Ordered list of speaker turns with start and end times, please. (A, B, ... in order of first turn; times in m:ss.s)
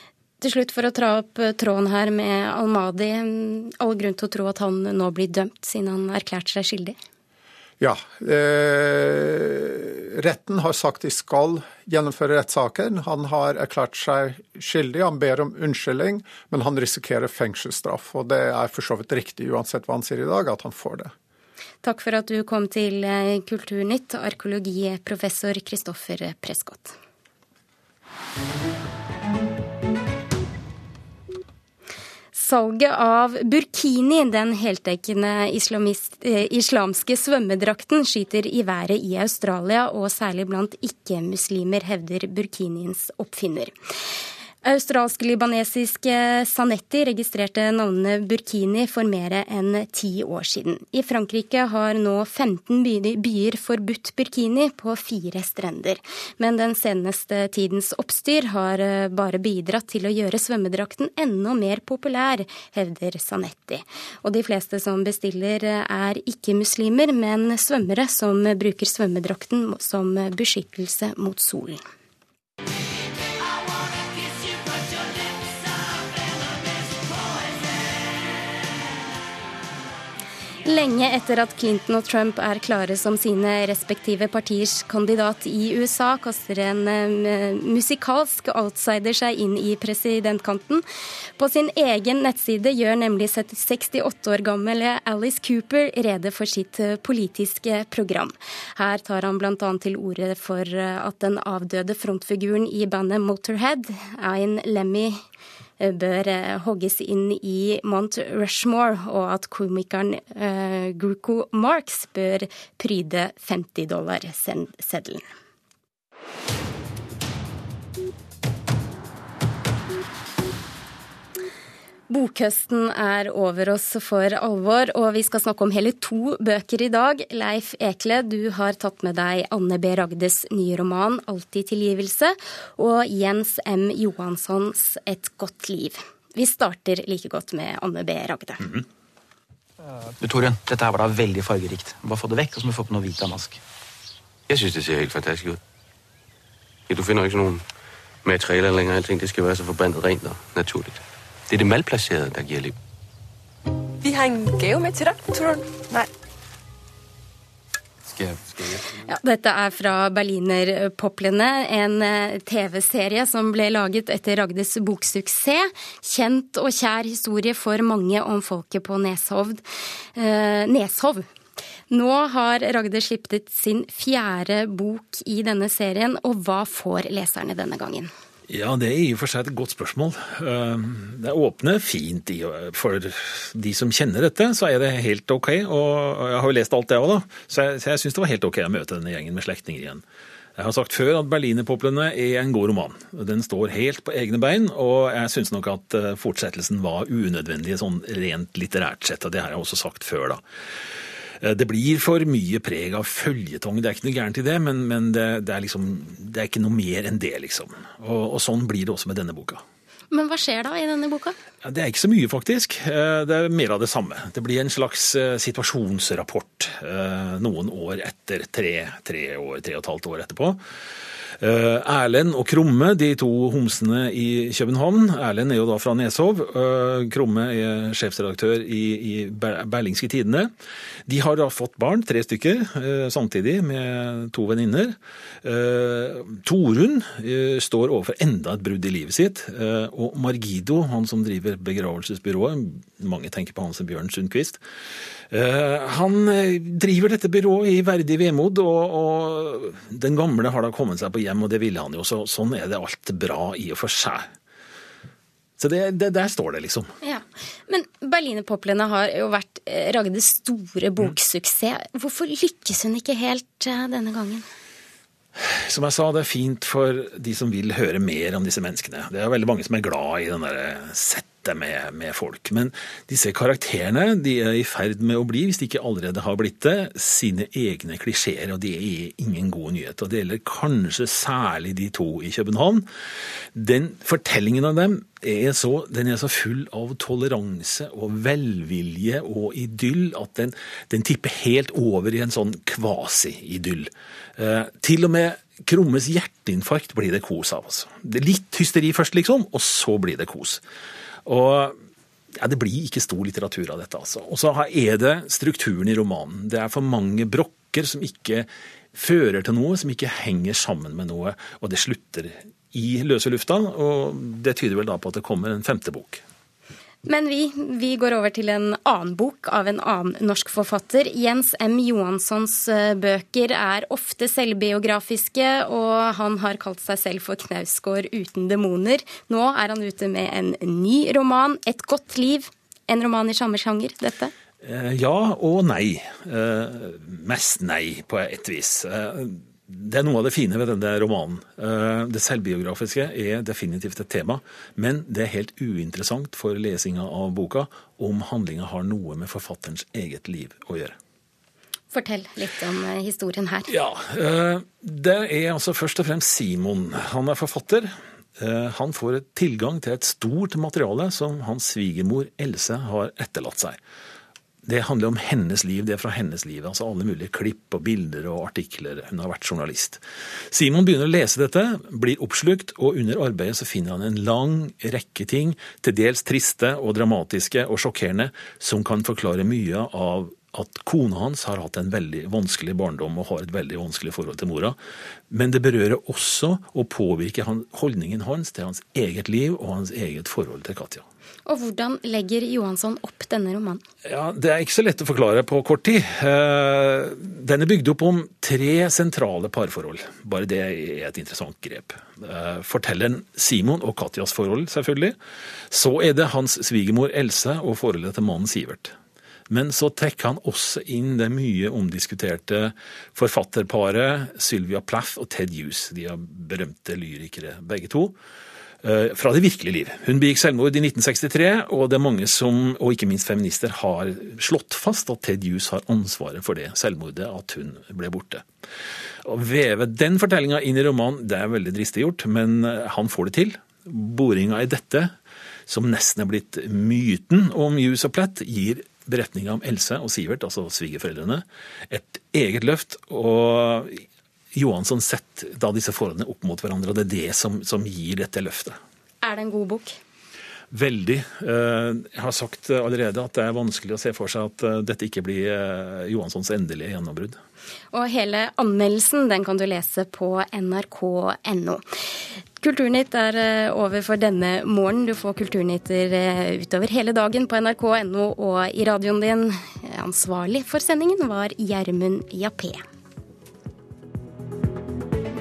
0:00.4-0:07.0 A
0:07.8-0:21.1 B
0:21.8-0:27.0 A
0:32.3-0:43.7 A
0:44.6-1:11.8 A
1:20.6-1:30.8 A
1:31.4-1:45.2 A
1:45.8-1:55.3 A
2:02.1-2:18.7 A
2:20.2-2:23.6 C
2:24.5-2:25.6 D
2:26.9-2:27.6 D
2:28.2-2:32.8 D
2:34.0-2:36.0 E
2:39.0-2:49.6 A
2:50.1-2:51.3 A
2:51.9-2:58.1 A
2:58.5-3:10.0 F
3:10.6-3:20.4 F
3:21.4-3:29.6 F
3:30.1-3:31.4 A
3:31.6-3:40.6 F
3:41.4-3:50.5 F
3:51.1-4:04.6 F
4:05.3-4:14.3 F
4:15.6-4:16.9 F
4:17.0-4:24.5 A
4:25.4-4:42.9 F
4:43.5-5:00.6 F
5:01.2-5:01.8 F
5:02.4-5:16.2 F
5:17.1-5:34.3 A
5:34.6-5:51.0 F
5:51.9-5:53.7 A
5:53.7-6:03.8 F
6:04.6-6:24.8 F
6:25.3-6:31.0 F
6:31.5-6:33.8 A
6:34.1-6:45.2 F
6:45.7-6:49.0 F
6:49.5-6:58.2 F
6:58.8-7:08.5 F
7:09.2-7:15.1 F
7:15.7-7:28.8 F
7:29.2-7:30.0 A
7:30.7-7:37.4 F
7:37.9-7:41.8 A
7:42.6-7:52.8 A